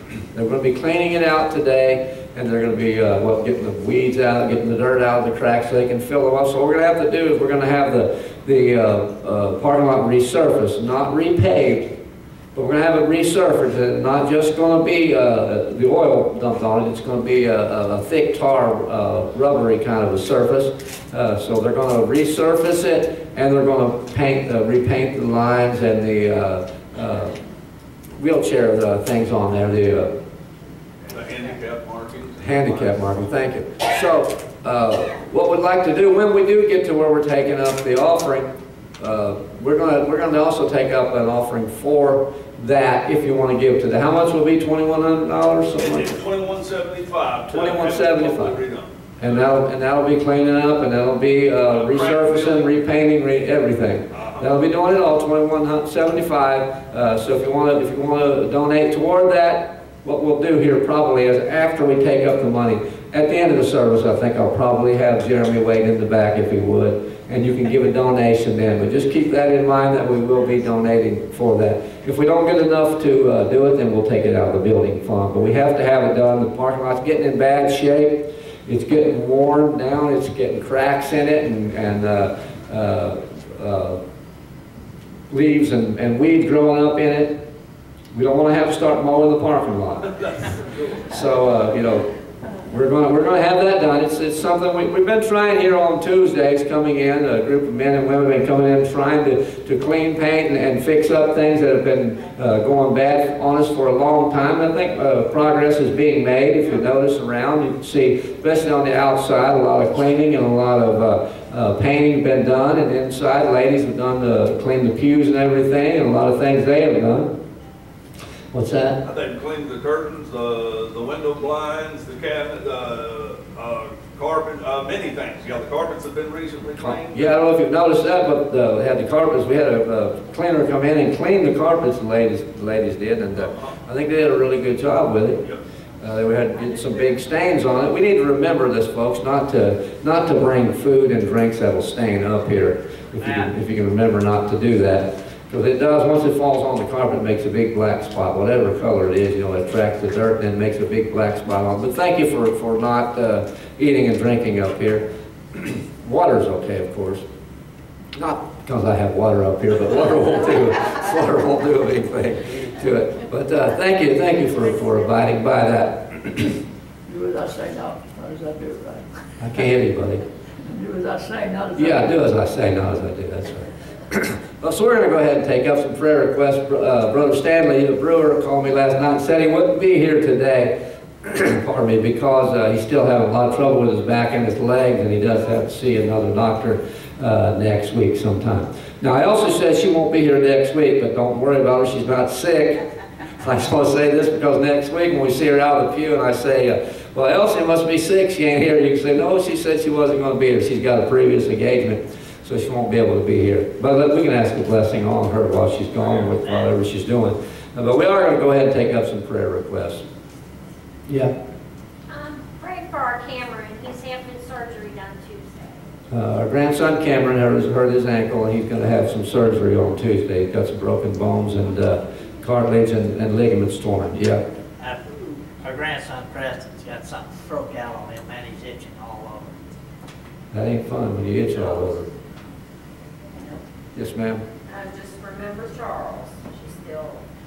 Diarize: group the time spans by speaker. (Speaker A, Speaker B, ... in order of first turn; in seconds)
Speaker A: 0.3-12.0, 12.5-27.4, 28.2-30.2, 32.4-46.2, 47.5-48.6, 49.2-84.0, 85.3-87.5, 88.1-90.1, 91.1-92.1, 92.7-117.3, 118.5-119.0, 126.8-135.4, 136.0-157.2, 158.1-166.6, 169.4-170.2, 171.8-192.8, 193.4-210.0, 211.1-211.3, 216.1-224.4, 230.5-232.1, 233.9-234.4
Speaker B: 31.1-33.2, 45.8-49.5, 51.7-52.7, 54.1-54.5, 119.0-127.3, 133.4-133.7
Speaker C: 167.1-169.1, 170.7-172.0
Speaker D: 212.1-215.8
Speaker E: 224.8-229.6
Speaker F: 234.7-237.2